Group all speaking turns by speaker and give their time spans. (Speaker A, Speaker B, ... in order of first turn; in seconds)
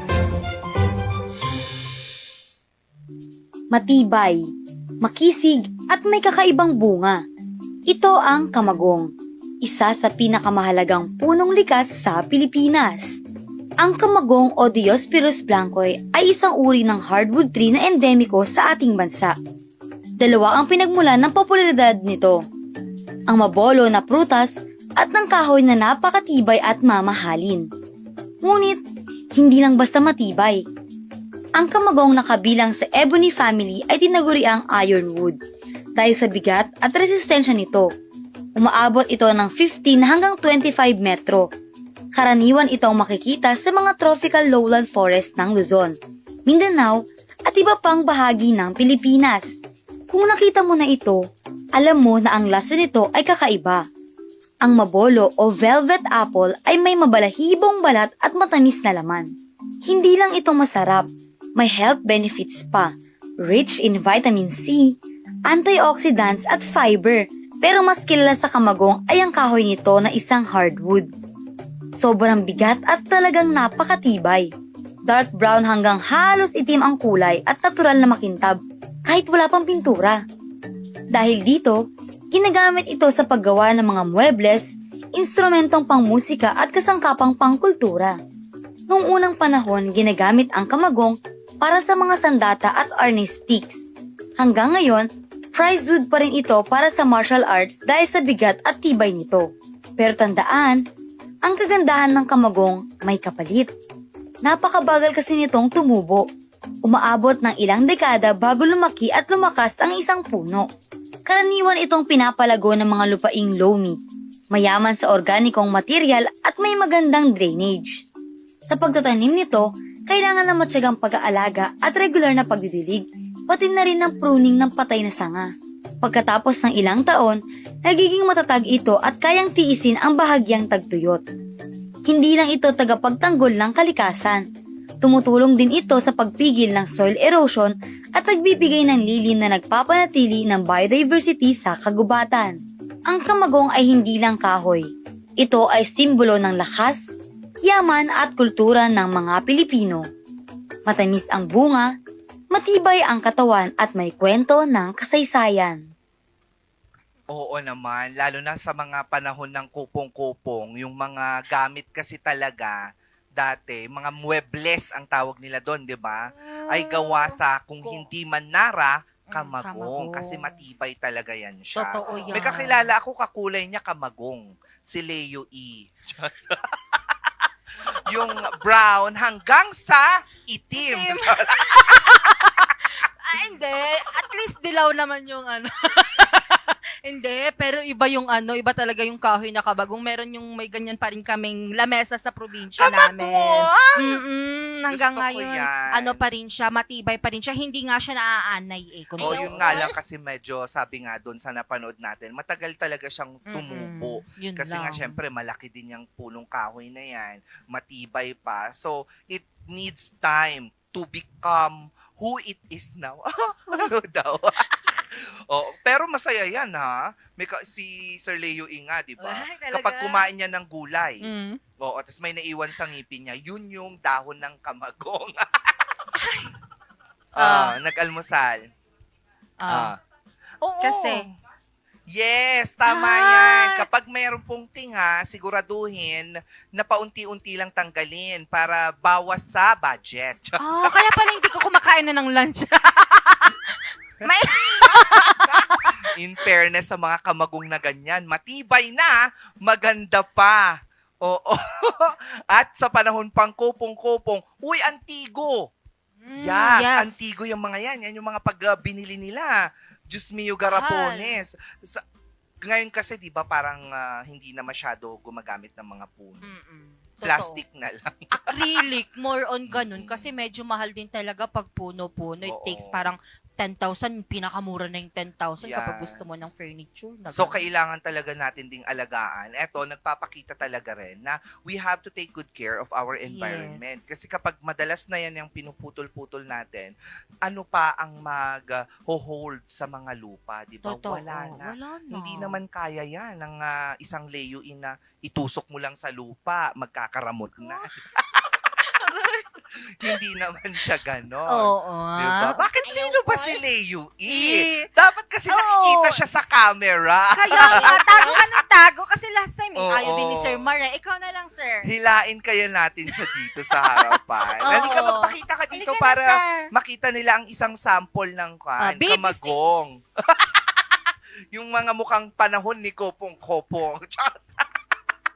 Speaker A: 3.7-4.4, 5.0-7.2, 7.9-9.1, 9.6-13.2, 13.8-19.4, 20.2-22.4, 23.3-27.7, 28.4-28.8, 29.4-30.6, 31.6-35.4, 36.0-37.9, 38.6-41.5, 42.1-46.0, 46.5-49.5, 50.1-51.2, 51.8-53.8, 54.6-59.3, 59.9-62.9, 63.4-71.1, 72.0-74.5, 75.1-80.2, 81.1-81.8, 82.3-88.2, 88.9-93.8, 94.4-99.5, 100.0-100.8, 101.5-103.7, 104.5-106.3, 106.9-110.7, 111.3-114.0, 114.5-118.0, 118.7-125.5, 126.0-131.2, 132.1-134.4, 135.0-144.9, 145.4-147.1, 147.6-150.1, 150.9-151.9, 152.5-155.8
Speaker B: 157.3-162.8, 163.4-177.0, 178.1-182.6, 192.8-194.2, 194.9-196.2, 199.2-221.3, 221.8-225.7, 227.3-228.6, 229.7-230.0, 230.6-231.3, 232.1-240.9, 244.9-255.7, 256.4-262.0, 262.6-266.5, 267.2-268.5, 269.7-270.3, 272.4-273.1, 275.6-276.5, 277.3-286.9, 287.4-298.8, 300.0-308.6, 309.8-310.7, 311.9-321.0, 321.5-324.6
Speaker C: 166.3-168.1, 169.3-170.6, 171.8-172.9, 180.7-199.9, 203.5-205.2, 219.2-220.3, 221.2-221.6, 226.2-226.6, 227.4-227.8, 229.6-229.9, 230.8-231.3, 232.9-233.9, 240.6-246.0, 256.2-257.4, 260.6-261.4, 266.4-267.6, 268.3-277.6, 283.2-284.1, 290.8-292.6, 298.9-299.5, 301.5-303.6, 304.3-304.9, 305.5-306.2, 307.3-311.9, 314.6-316.7, 318.8-320.1